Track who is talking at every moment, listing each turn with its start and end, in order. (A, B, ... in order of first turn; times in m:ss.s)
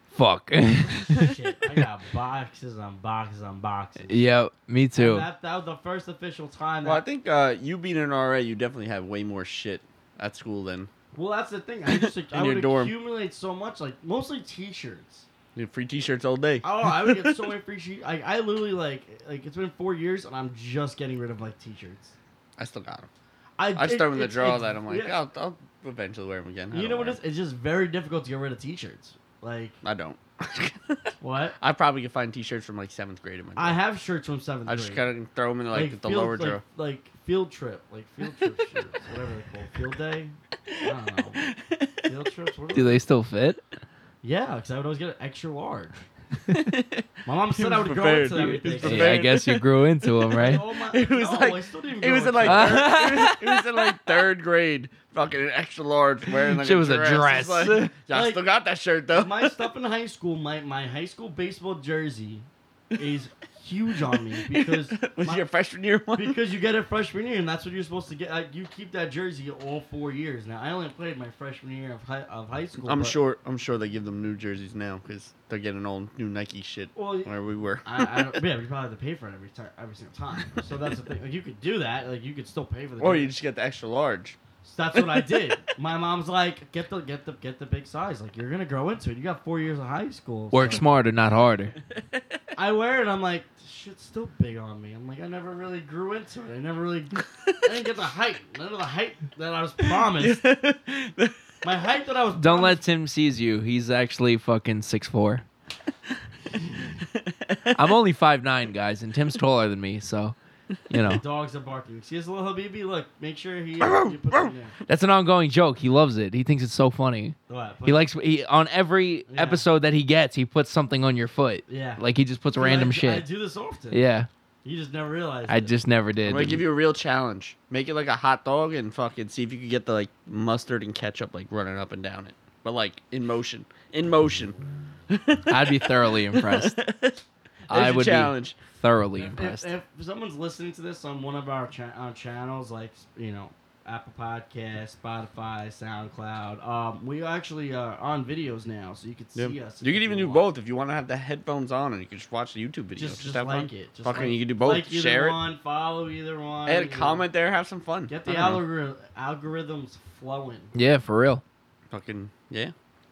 0:00.1-0:01.4 A
0:01.0-0:04.2 B
0:04.1-0:05.3 A
0:05.0-0:07.0 B
0:06.8-0:10.9 C
0:11.1-0:15.3 B
0:11.9-0:12.9 C
0:15.6-0:17.5 C
0:16.6-0:22.2 B
0:22.6-0:23.1 C
0:23.6-0:25.2 B
0:23.8-0:27.2 C
0:26.7-0:29.8 B
0:29.8-0:33.8 C
0:31.2-0:31.6 B
0:33.6-0:35.1 B
0:34.7-0:36.6 C
0:35.7-0:41.5 B
0:40.7-0:42.1 C
0:42.1-0:43.0 B
0:42.7-0:43.6 A
0:44.2-0:46.0 B
0:46.5-0:59.6 C
0:47.2-0:49.3 B
0:48.4-0:50.6 A
0:50.3-0:53.0 B
0:52.4-0:54.0 A
0:56.4-0:57.9 A
0:58.1-0:58.4 B
0:59.1-1:05.5 B
1:04.3-1:06.4 C
1:06.2-1:13.2 B
1:12.8-1:18.4 C
1:17.0-1:23.3 B
1:23.0-1:24.4 C
1:24.6-1:30.8 B
1:24.9-1:25.5 C
1:30.5-1:31.8 A
1:32.6-1:40.4 B
1:40.1-1:41.4 C
1:41.6-1:42.8 B
1:42.4-1:45.4 A
1:47.0-1:48.0 C
1:47.7-1:50.3 A
1:50.9-1:51.2 A
1:51.0-1:54.7 B
1:53.8-1:54.5 C
1:54.9-2:03.3 A
1:57.5-1:58.1 B
1:59.3-1:59.6 B
2:01.7-2:02.0 B
2:02.6-2:04.0 B
2:03.9-2:04.3 A
2:04.6-2:05.7 B
2:05.5-2:06.6 A
2:06.2-2:18.6 C
2:15.5-2:16.8 A
2:17.7-2:19.7 A
2:19.2-2:30.5 B
2:29.4-2:35.4 C
2:33.0-2:37.3 B
2:36.7-2:38.6 C
2:38.1-2:40.7 B
2:40.7-2:41.4 A
2:41.9-2:42.7 C